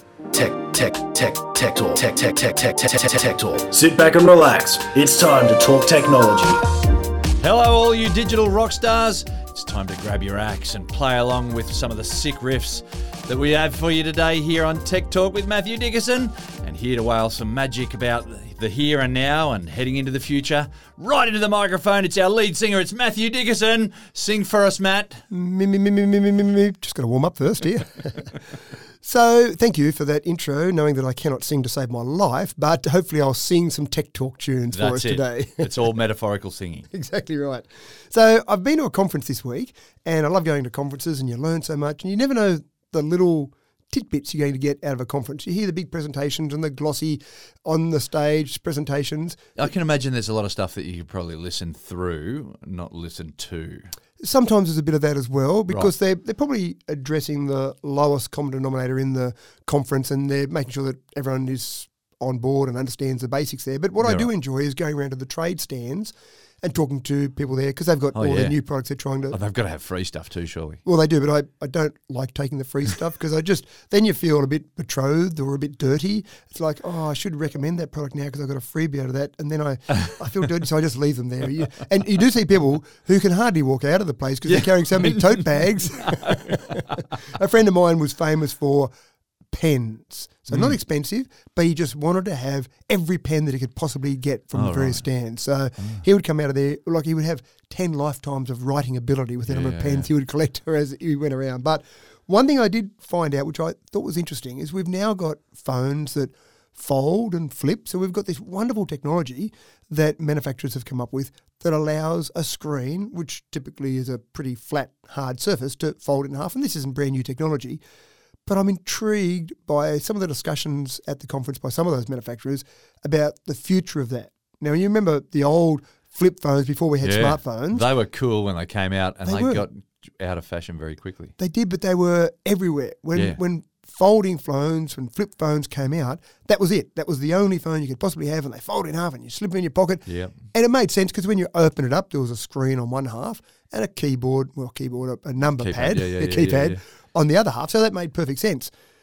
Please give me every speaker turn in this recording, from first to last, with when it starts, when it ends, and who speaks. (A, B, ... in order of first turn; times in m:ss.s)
0:00.3-0:06.6 A
0:07.4-0:25.2 B
0:25.3-0:28.4 C
0:29.0-0:35.7 C
0:34.7-0:36.9 B
0:36.9-0:49.4 C
0:49.6-0:53.9 B
0:54.2-1:09.4 C
1:04.0-1:04.3 B
1:08.1-1:08.6 B
1:09.3-1:10.8 B
1:10.8-1:28.9 C
1:24.4-1:27.0 B
1:29.5-1:57.8 C
1:30.5-1:30.8 B
1:34.5-1:35.0 B
1:35.8-1:36.0 B
1:39.4-1:40.1 B
1:58.4-2:07.9 C
2:07.0-2:11.3 B
2:09.2-2:09.6 C
2:11.4-2:28.7 C
2:20.0-2:20.4 B
2:25.6-2:26.8 B